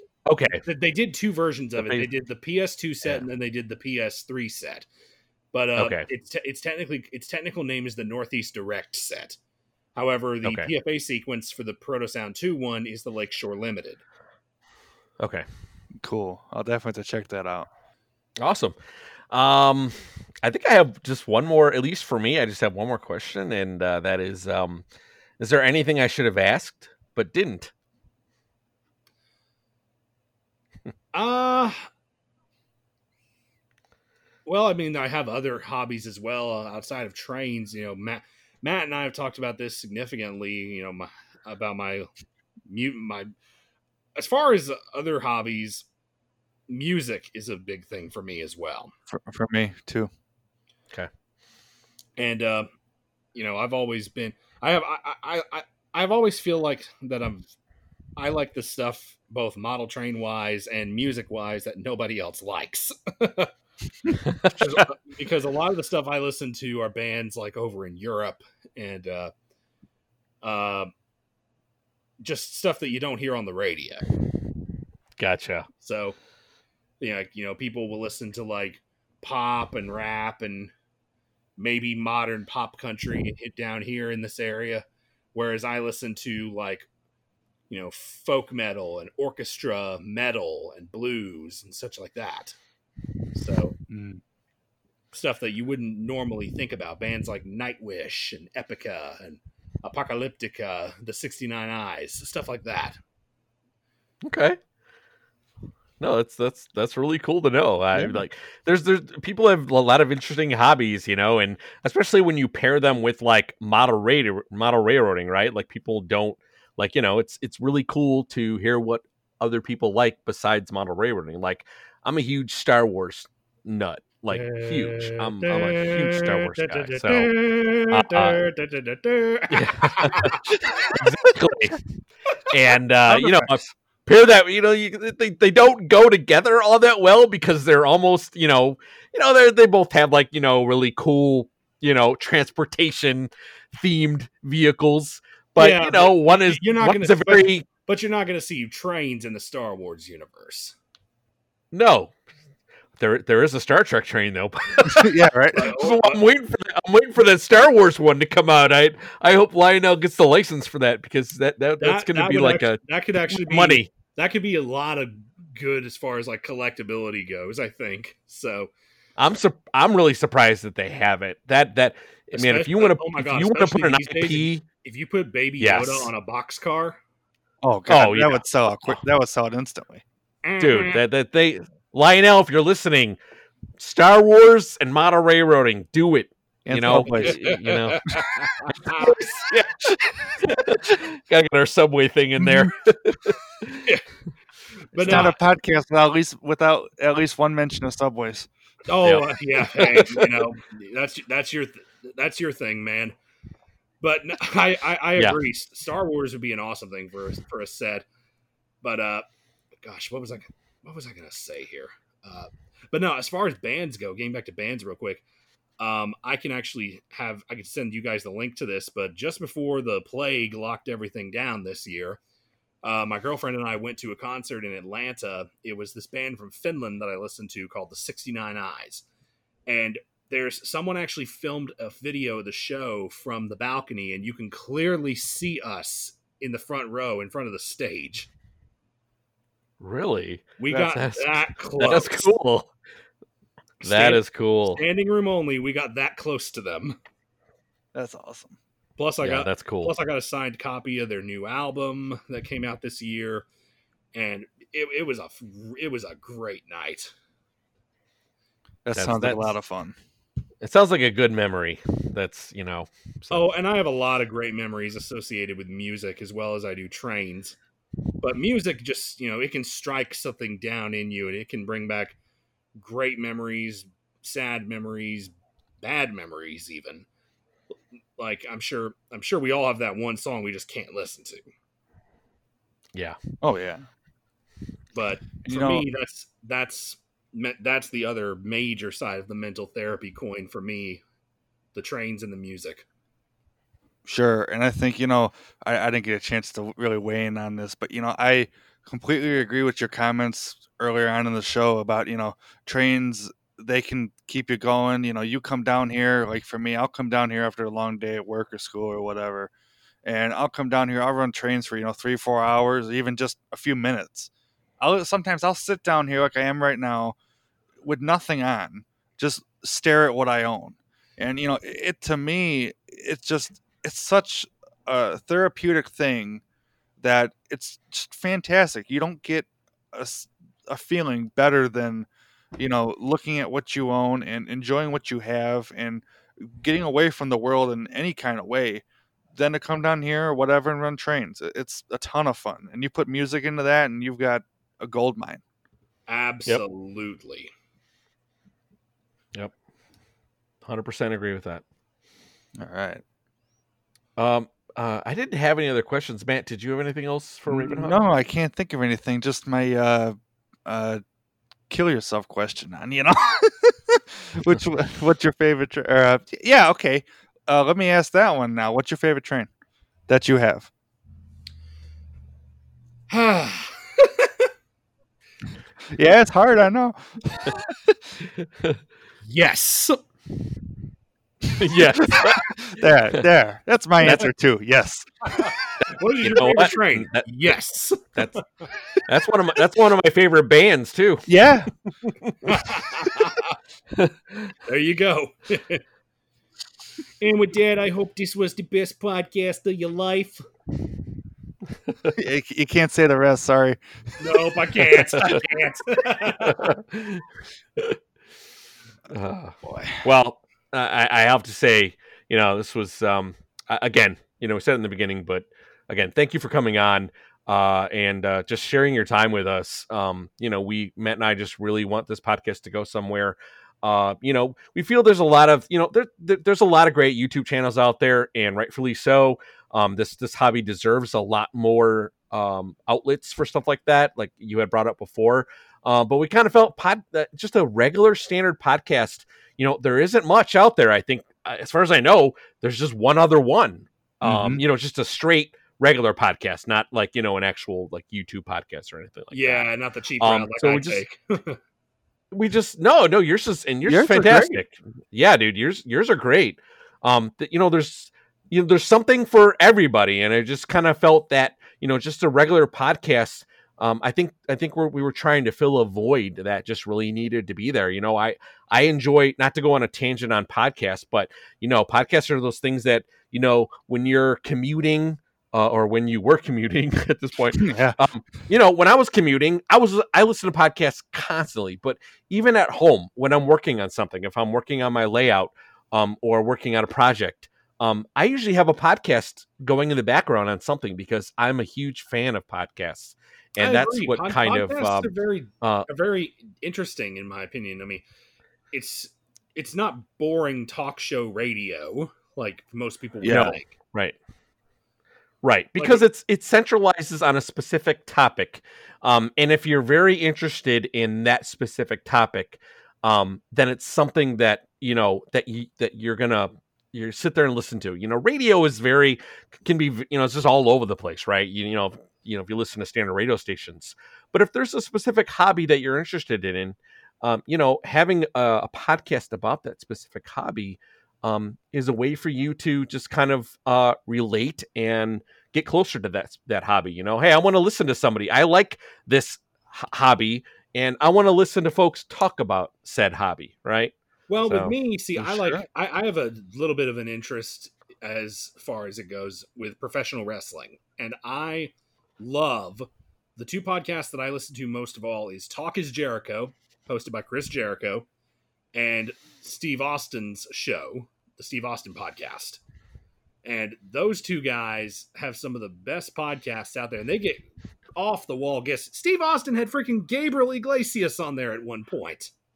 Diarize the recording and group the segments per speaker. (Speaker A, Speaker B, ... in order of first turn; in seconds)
Speaker A: 0.2-0.6, 1.8-2.1, 5.8-6.1, 10.4-10.7, 15.2-15.4, 18.4-18.8, 19.3-24.8, 25.4-27.7, 64.1-64.8, 75.2-75.7, 104.2-104.6, 106.0-127.3, 127.9-128.5, 129.5-131.8, 132.5-147.7, 151.7-152.1, 153.0-163.9, 169.2-174.6, 175.6-176.1, 177.9-179.0, 180.6-183.2, 183.8-188.0, 188.8-193.9, 195.1-195.3, 199.0-200.4, 239.8-242.7, 243.8-244.8, 249.2-249.9, 258.9-259.5, 260.6-263.5, 350.6-351.6, 354.2-358.0, 378.4-378.8, 381.6-382.5, 386.2-387.3, 388.1-388.4, 389.0-391.3, 392.1-392.4, 393.9-394.5, 401.9-402.1, 406.5-407.2, 409.1-449.7, 450.2-451.0, 452.3-495.9, 503.2-504.1, 505.4-543.9, 544.5-544.7
Speaker B: 0.6-4.8, 5.5-9.4, 9.9-14.0, 31.1-31.9, 34.5-42.1, 42.7-43.3, 44.1-45.8, 46.7-48.9, 52.2-52.7, 53.3-57.5, 58.1-63.5, 64.5-69.3, 70.4-70.9, 72.2-74.1, 75.8-76.2, 77.0-80.7, 81.6-86.9, 87.7-92.6, 93.3-93.8, 95.1-103.0, 124.3-130.9, 145.6-150.7, 155.5-156.2, 161.8-168.7, 172.3-177.0, 180.4-181.0, 187.1-189.2, 194.9-195.3, 198.9-203.1, 204.0-208.0, 208.8-209.3, 209.8-215.2, 215.8-222.2, 222.8-229.0, 229.7-238.3, 240.6-242.3, 243.8-247.0, 249.0-253.4, 254.1-257.1, 263.3-267.6, 268.2-272.1, 272.7-277.1, 278.2-281.5, 284.9-291.0, 291.7-292.8, 346.1-347.5, 373.1-374.5, 379.2-380.0, 385.3-388.4, 392.4-393.6, 394.6-395.8, 397.2-400.4, 404.2-406.7, 449.3-451.6, 493.6-498.0, 498.7-503.7, 505.8-506.0, 544.3-558.1, 558.7-562.6, 563.4-572.3
Speaker C: 16.0-17.7, 49.1-50.1, 93.9-94.2, 107.9-108.2, 133.1-133.5, 154.9-155.7, 177.6-180.0, 186.7-187.4, 192.4-192.7, 195.0-198.5, 247.9-248.6, 258.8-260.0, 283.4-283.8, 285.4-285.8, 294.1-309.5, 310.0-317.1, 317.8-326.4, 327.0-345.4, 352.6-353.0, 357.5-361.0, 361.7-369.5, 370.1-370.7, 375.9-377.9, 382.0-385.5, 391.3-391.7, 402.1-405.0, 409.6-410.0, 444.2-444.6, 453.8-454.6, 477.5-478.0, 503.2-503.6, 545.2-545.6